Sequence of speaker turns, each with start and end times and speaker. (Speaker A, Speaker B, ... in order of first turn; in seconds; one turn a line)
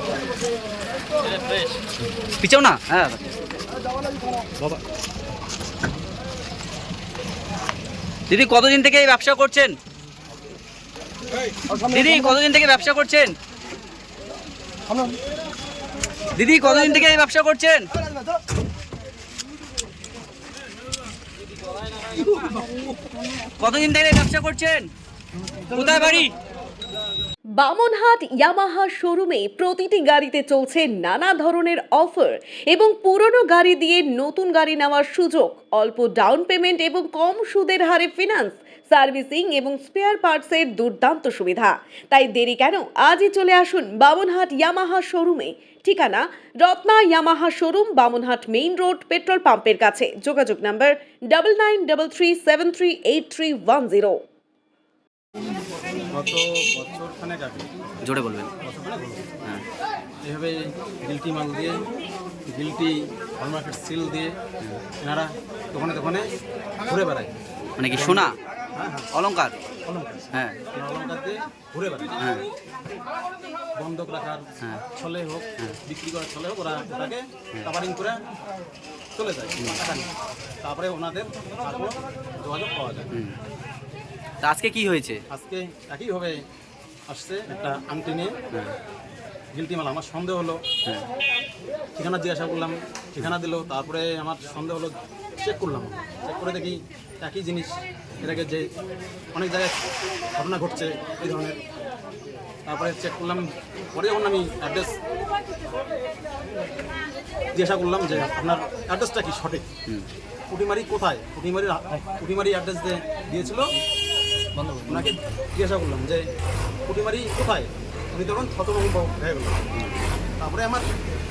Speaker A: 1.4-1.7
Speaker A: 2.4-3.4
Speaker A: 8.3-9.7
Speaker A: 11.7-13.3
Speaker A: 16.3-17.9
Speaker A: 22.1-22.9
Speaker A: 23.6-24.9
Speaker A: 25.7-26.3
Speaker B: 27.6-54.2
Speaker C: 56.1-57.7
Speaker A: 58.0-58.5
Speaker C: 58.6-59.3
Speaker C: 60.2-61.8
Speaker C: 62.5-64.4
Speaker C: 65.0-67.3
Speaker A: 67.8-68.3
Speaker C: 67.9-69.1
Speaker A: 69.1-69.5
Speaker C: 69.8-72.2
Speaker A: 70.3-70.6
Speaker C: 73.8-78.2
Speaker A: 74.6-74.9
Speaker C: 79.2-80.1
Speaker C: 80.6-83.1
Speaker A: 84.4-85.2
Speaker C: 85.3-86.4
Speaker C: 87.1-88.3
Speaker C: 89.5-90.6
Speaker C: 92.0-98.7
Speaker C: 99.3-99.8
Speaker C: 100.3-101.6
Speaker C: 102.7-105.0
Speaker C: 107.5-109.7
Speaker C: 110.5-113.7
Speaker A: 114.5-115.1
Speaker C: 114.9-116.2
Speaker C: 116.9-119.6
Speaker C: 120.4-120.9